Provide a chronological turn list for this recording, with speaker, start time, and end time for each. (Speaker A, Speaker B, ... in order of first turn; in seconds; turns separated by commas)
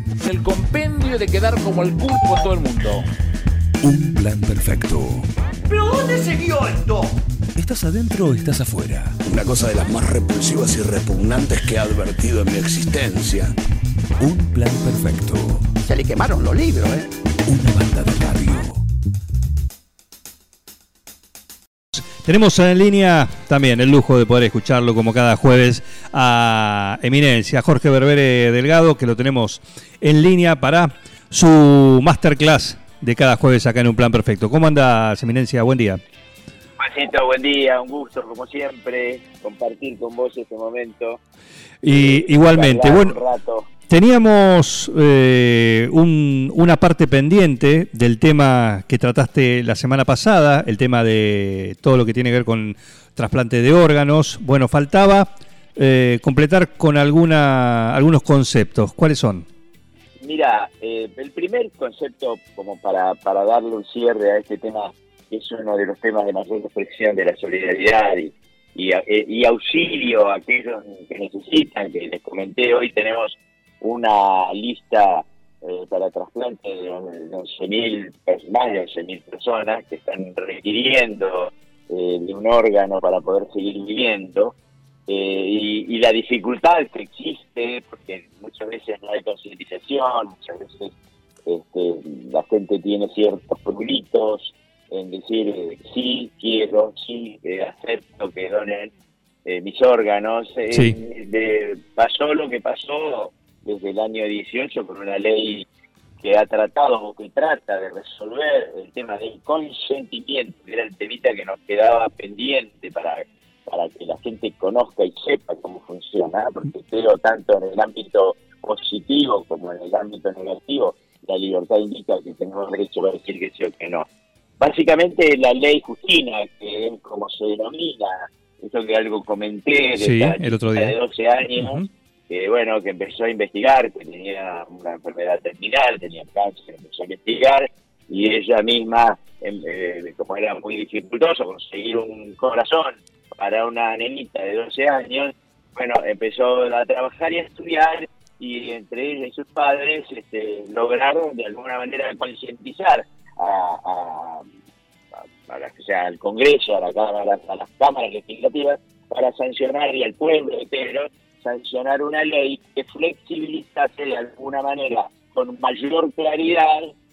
Speaker A: 0.2-3.0, Speaker B: 3.8-5.3, Speaker C: 5.7-7.1, Speaker B: 7.5-9.2, Speaker D: 9.2-13.5, Speaker B: 14.2-15.8, Speaker C: 15.9-17.1, Speaker B: 17.4-18.8, Speaker E: 21.9-36.0, Speaker F: 36.8-41.2, Speaker E: 41.8-43.2, Speaker F: 41.9-43.7, Speaker E: 43.9-59.5, Speaker F: 60.2-84.5, Speaker F: 85.1-90.9, Speaker F: 91.5-98.9, Speaker F: 99.5-105.7, Speaker F: 106.2-124.1, Speaker F: 124.6-154.4, Speaker E: 130.0-130.9, Speaker E: 131.5-131.8, Speaker F: 155.4-166.9